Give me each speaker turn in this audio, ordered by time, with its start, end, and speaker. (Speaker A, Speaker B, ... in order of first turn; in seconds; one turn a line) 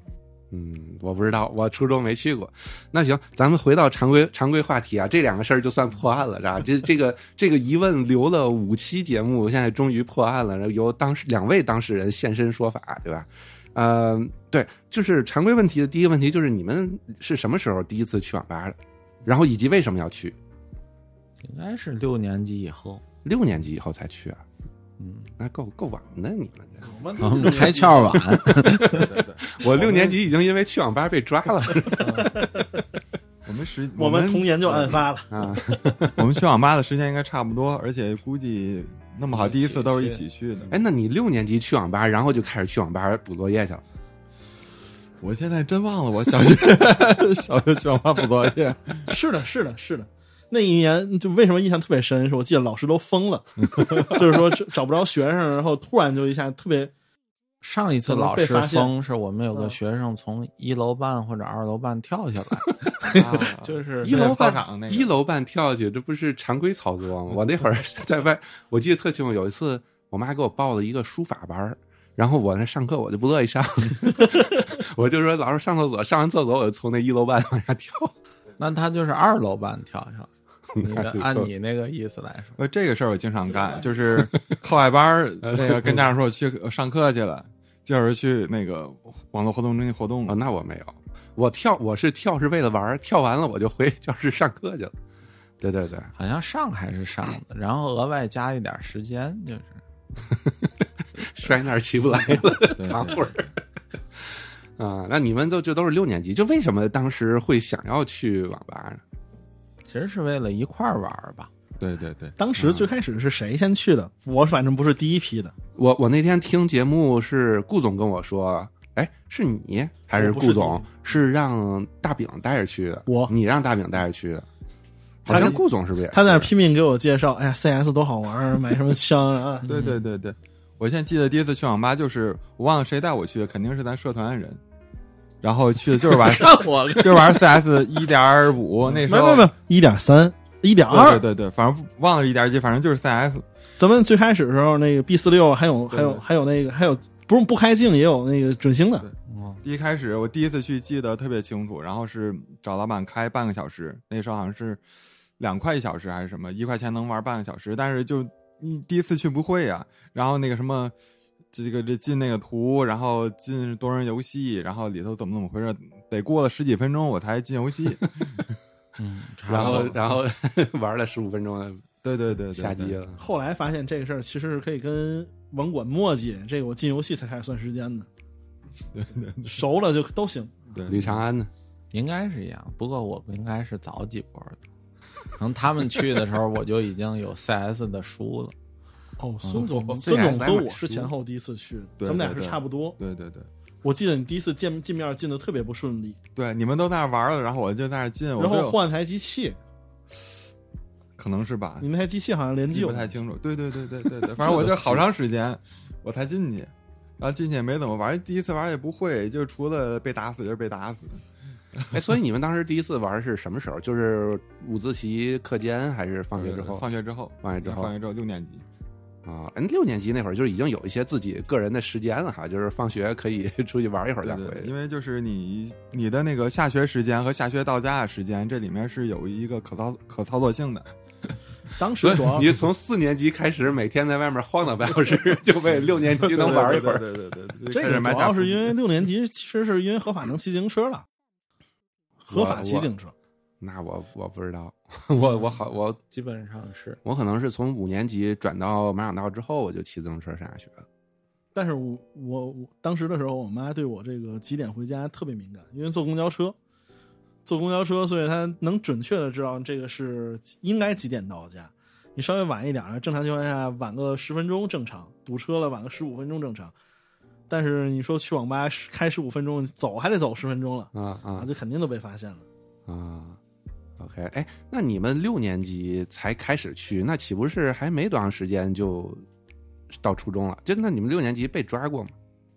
Speaker A: 0.5-20.4
Speaker B: 21.4-23.0
Speaker A: 23.2-24.4
Speaker B: 25.0-25.3
Speaker A: 25.4-27.1
Speaker C: 26.8-28.8
Speaker B: 27.2-29.1
Speaker D: 28.8-29.9
Speaker A: 29.4-32.3
Speaker C: 32.0-32.7
Speaker D: 33.4-35.0
Speaker C: 34.0-35.3
Speaker A: 35.3-36.2
Speaker D: 36.1-40.7
Speaker B: 39.3-40.2
Speaker A: 40.7-43.8
Speaker D: 45.2-49.1
Speaker C: 49.1-56.9
Speaker D: 53.7-54.4
Speaker B: 57.6-64.2
Speaker C: 58.0-58.9
Speaker D: 63.1-65.1
Speaker A: 64.0-78.1
Speaker B: 78.6-82.6
Speaker A: 80.7-81.5
Speaker D: 82.6-90.4
Speaker A: 85.4-86.0
Speaker A: 90.2-94.9
Speaker A: 95.6-96.1
Speaker B: 96.1-99.8
Speaker A: 101.2-103.5
Speaker D: 102.8-103.1
Speaker A: 104.2-109.0
Speaker B: 109.8-111.5
Speaker D: 111.8-112.4
Speaker C: 112.4-115.5
Speaker A: 115.8-124.5
Speaker C: 120.2-120.8
Speaker C: 123.1-123.3
Speaker A: 125.2-126.5
Speaker D: 125.2-125.6
Speaker C: 125.3-125.6
Speaker C: 126.1-129.7
Speaker B: 129.6-130.0
Speaker D: 129.7-134.6
Speaker D: 135.4-139.5
Speaker B: 136.1-137.6
Speaker C: 139.1-141.2
Speaker D: 140.9-143.4
Speaker C: 143.8-149.1
Speaker D: 145.9-146.2
Speaker D: 149.0-154.8
Speaker B: 149.3-149.6
Speaker D: 155.4-160.9
Speaker D: 161.5-168.3
Speaker B: 169.0-170.2
Speaker A: 169.5-171.8
Speaker D: 169.5-169.9
Speaker D: 172.0-173.0
Speaker A: 172.5-173.2
Speaker C: 173.2-178.1
Speaker D: 178.9-179.6
Speaker C: 179.4-180.7
Speaker D: 180.7-181.2
Speaker A: 180.9-181.5
Speaker B: 181.9-184.6
Speaker B: 185.4-188.5
Speaker C: 189.2-193.0
Speaker B: 189.5-189.7
Speaker A: 189.8-191.1
Speaker D: 192.0-193.5
Speaker C: 193.8-196.2
Speaker D: 196.3-198.8
Speaker C: 198.4-199.6
Speaker D: 201.2-201.9
Speaker C: 201.8-203.2
Speaker D: 202.7-212.0
Speaker A: 211.9-216.9
Speaker D: 216.3-218.6
Speaker A: 217.4-217.9
Speaker A: 219.2-224.7
Speaker D: 224.2-230.9
Speaker C: 231.8-232.5
Speaker A: 232.0-237.1
Speaker D: 236.2-238.8
Speaker C: 237.7-241.1
Speaker C: 242.2-243.1
Speaker A: 242.3-242.9
Speaker A: 243.6-246.0
Speaker B: 245.1-247.0
Speaker A: 247.0-250.8
Speaker C: 251.5-256.6
Speaker C: 257.4-266.7
Speaker C: 267.5-272.4
Speaker A: 270.9-271.5
Speaker A: 272.9-273.4
Speaker A: 274.0-279.2
Speaker A: 280.0-282.1